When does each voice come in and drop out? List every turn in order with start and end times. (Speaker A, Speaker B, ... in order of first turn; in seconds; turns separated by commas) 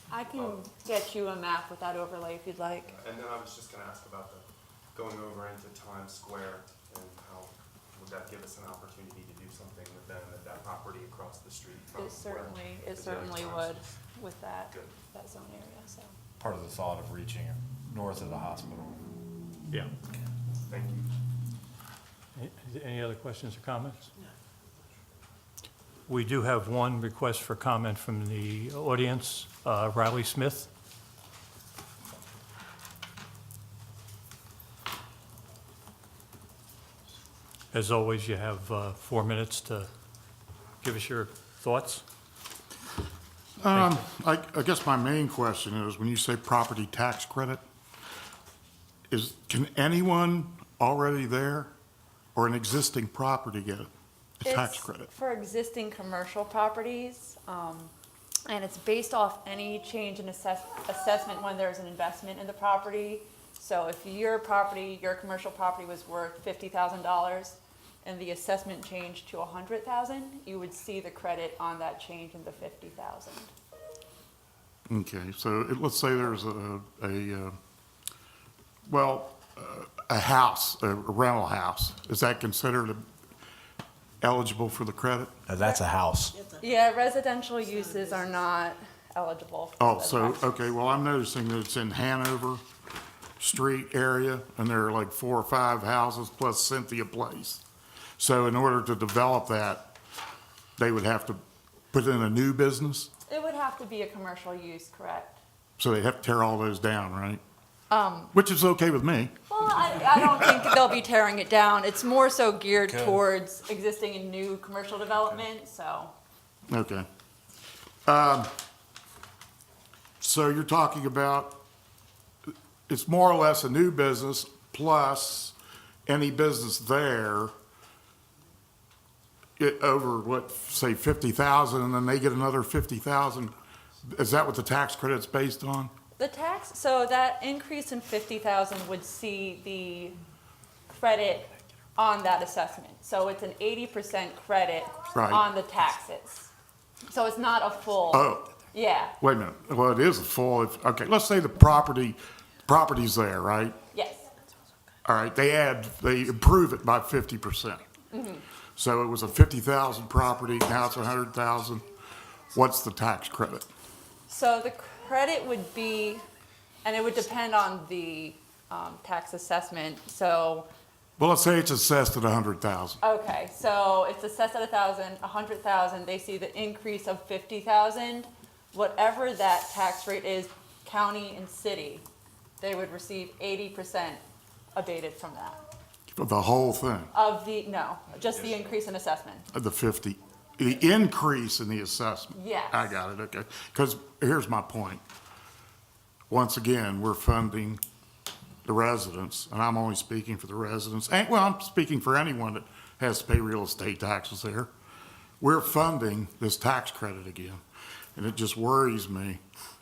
Speaker A: 0.1-3.0, Speaker B: 0.3-0.6, Speaker B: 2.9-13.8, Speaker A: 11.9-16.1, Speaker B: 14.7-15.0, Speaker C: 16.4-19.0, Speaker B: 20.7-21.1, Speaker D: 22.3-24.1, Speaker D: 26.1-30.7, Speaker D: 37.7-39.9, Speaker D: 40.8-42.0, Speaker E: 43.6-47.6, Speaker D: 43.7-44.0, Speaker E: 49.1-51.7, Speaker E: 52.3-53.9, Speaker E: 54.4-55.1, Speaker A: 54.4-57.9, Speaker A: 58.5-73.5, Speaker E: 74.9-77.5, Speaker E: 78.9-83.0, Speaker E: 84.2-85.3, Speaker C: 85.5-86.3, Speaker A: 85.6-85.8, Speaker A: 86.5-90.6, Speaker E: 89.8-92.6, Speaker E: 93.4-97.6, Speaker E: 98.2-99.9, Speaker E: 100.8-103.1, Speaker A: 103.3-105.4, Speaker E: 105.8-107.4, Speaker A: 107.9-108.3, Speaker E: 108.3-109.3, Speaker A: 109.5-116.1, Speaker E: 110.0-110.6, Speaker C: 112.9-113.2, Speaker E: 116.7-117.1, Speaker E: 118.0-118.5, Speaker E: 120.2-121.6, Speaker E: 122.9-125.5, Speaker E: 126.1-127.5, Speaker E: 129.6-133.5, Speaker E: 134.0-135.9, Speaker A: 136.2-140.2, Speaker A: 140.9-146.5, Speaker E: 145.1-145.4, Speaker A: 147.1-149.1, Speaker E: 148.1-148.4, Speaker E: 149.2-153.8, Speaker A: 153.9-154.3, Speaker E: 155.0-157.8, Speaker A: 158.1-158.4, Speaker E: 158.8-161.8, Speaker E: 162.5-163.7, Speaker A: 164.3-166.2, Speaker A: 166.8-170.7, Speaker E: 171.2-173.0, Speaker A: 173.0-182.1, Speaker A: 182.6-184.2, Speaker A: 184.7-185.6, Speaker E: 186.1-187.1, Speaker A: 187.1-189.4, Speaker E: 189.5-195.0, Speaker A: 192.3-192.9, Speaker E: 196.3-197.8, Speaker E: 198.6-204.7, Speaker E: 205.4-207.6, Speaker E: 208.2-209.4